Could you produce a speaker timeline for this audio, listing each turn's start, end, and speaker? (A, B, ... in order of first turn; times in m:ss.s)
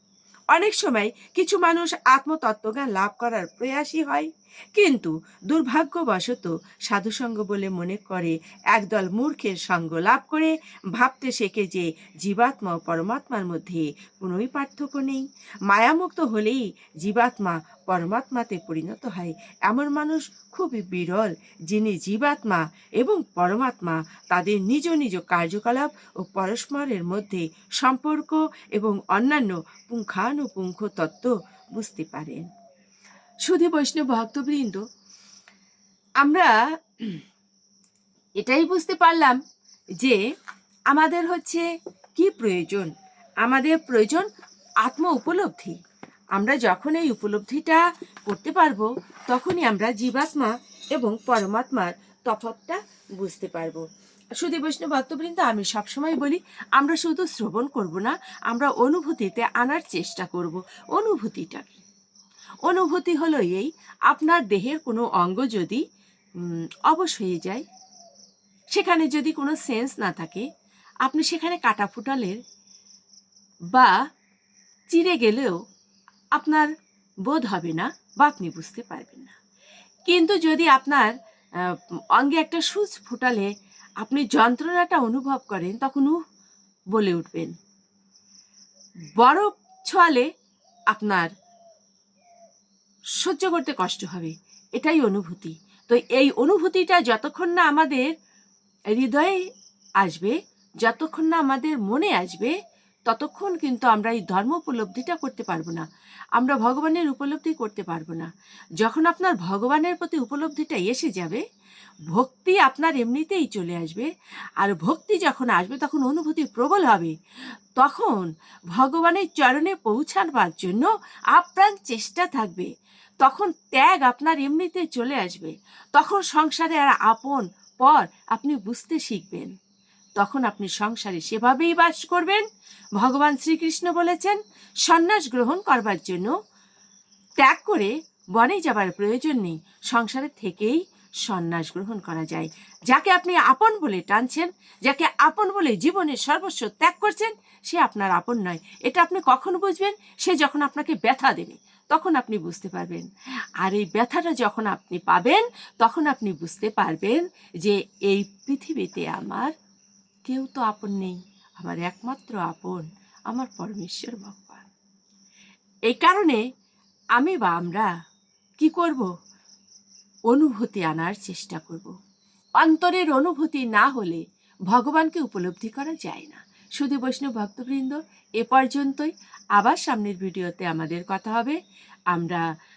0:00.5-0:32.5 A
0:33.4-0:34.8 A
0:36.2-0:37.2 A
0:38.4-0:39.4 A
0:40.9-0:41.6 A
0:42.2-0:42.9 A
0:43.4-0:44.3 A
0:44.8-0:45.8 A
0:46.4-0:53.8 A
0:54.4-1:01.8 A
1:02.7-1:05.8 A
1:06.4-1:07.6 A
1:08.7-1:10.5 A
1:11.0-1:12.4 A
1:14.9-1:15.6 A
1:16.4-1:16.7 A
1:17.3-1:19.4 A
1:20.1-1:23.5 A
1:24.0-1:26.2 A
1:26.9-1:27.5 A
1:29.2-1:30.3 A
1:30.9-1:31.3 A
1:33.2-1:38.1 A
1:38.9-1:39.4 A
1:40.0-1:42.6 A
1:43.1-1:45.9 A
1:46.4-1:48.3 A
1:48.8-1:51.4 A
1:52.1-1:57.1 A
1:57.8-2:02.7 A
2:03.2-2:09.5 A
2:10.2-2:12.4 A
2:13.0-2:16.3 A
2:17.4-2:33.1 A
2:33.6-2:39.5 A
2:40.2-2:44.7 A
2:45.9-2:46.4 A
2:47.2-2:47.9 A
2:48.6-2:49.1 A
2:50.3-2:51.9 A
2:52.6-3:01.6 A
3:02.1-3:02.4 A